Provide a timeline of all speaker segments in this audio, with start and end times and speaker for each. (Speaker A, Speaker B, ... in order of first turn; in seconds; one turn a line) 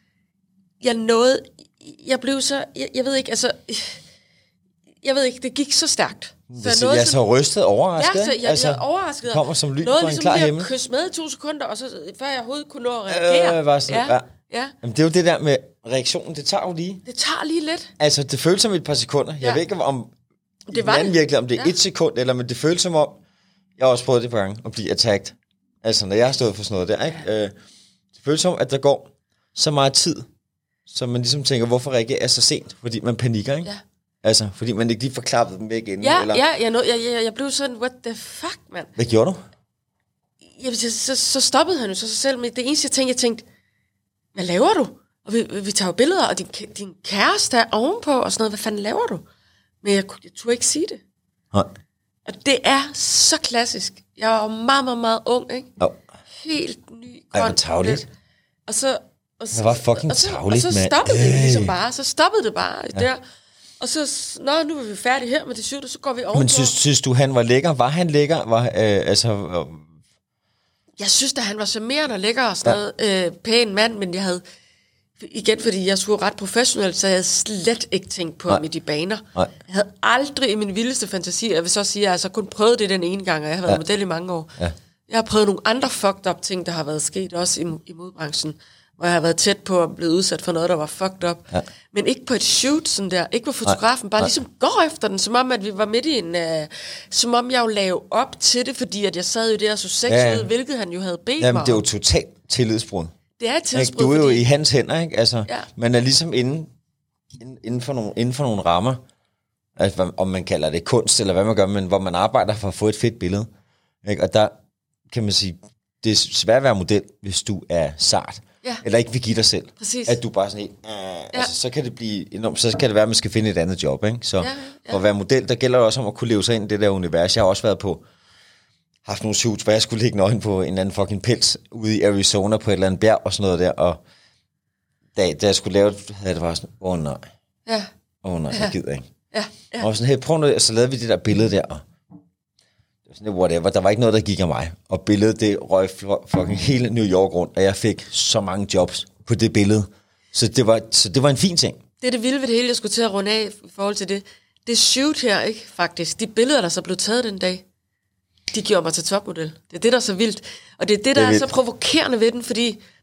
Speaker A: 0.8-4.0
Speaker A: 5.0-7.2
Speaker B: 6.5-10.7
Speaker A: 8.0-14.7
Speaker B: 13.1-14.2
Speaker B: 14.8-17.0
Speaker A: 17.0-17.9
Speaker B: 18.0-20.1
Speaker A: 20.7-21.7
Speaker B: 20.7-23.2
Speaker B: 23.8-27.5
Speaker B: 28.1-30.2
Speaker B: 30.9-33.7
Speaker B: 34.2-36.4
Speaker A: 36.0-38.9
Speaker B: 39.0-39.4
Speaker A: 40.5-43.4
Speaker A: 44.3-49.2
Speaker A: 49.8-51.0
Speaker A: 52.2-55.7
Speaker A: 56.4-58.0
Speaker B: 57.3-58.0
Speaker A: 58.7-63.2
Speaker B: 59.5-61.7
Speaker A: 63.8-66.7
Speaker B: 66.3-69.9
Speaker A: 71.0-74.4
Speaker A: 75.2-84.5
Speaker A: 85.1-101.8
Speaker B: 93.6-94.3
Speaker B: 100.1-100.5
Speaker B: 101.4-103.1
Speaker A: 103.4-104.4
Speaker B: 103.7-106.7
Speaker B: 107.4-109.0
Speaker B: 109.8-113.5
Speaker B: 114.0-114.5
Speaker B: 115.1-128.0
Speaker A: 119.8-120.2
Speaker A: 124.4-125.0
Speaker B: 129.0-134.0
Speaker B: 135.2-137.2
Speaker B: 138.2-139.1
Speaker A: 139.3-139.9
Speaker B: 139.8-141.8
Speaker B: 143.1-151.8
Speaker A: 152.0-157.6
Speaker A: 158.5-162.8
Speaker B: 161.1-161.5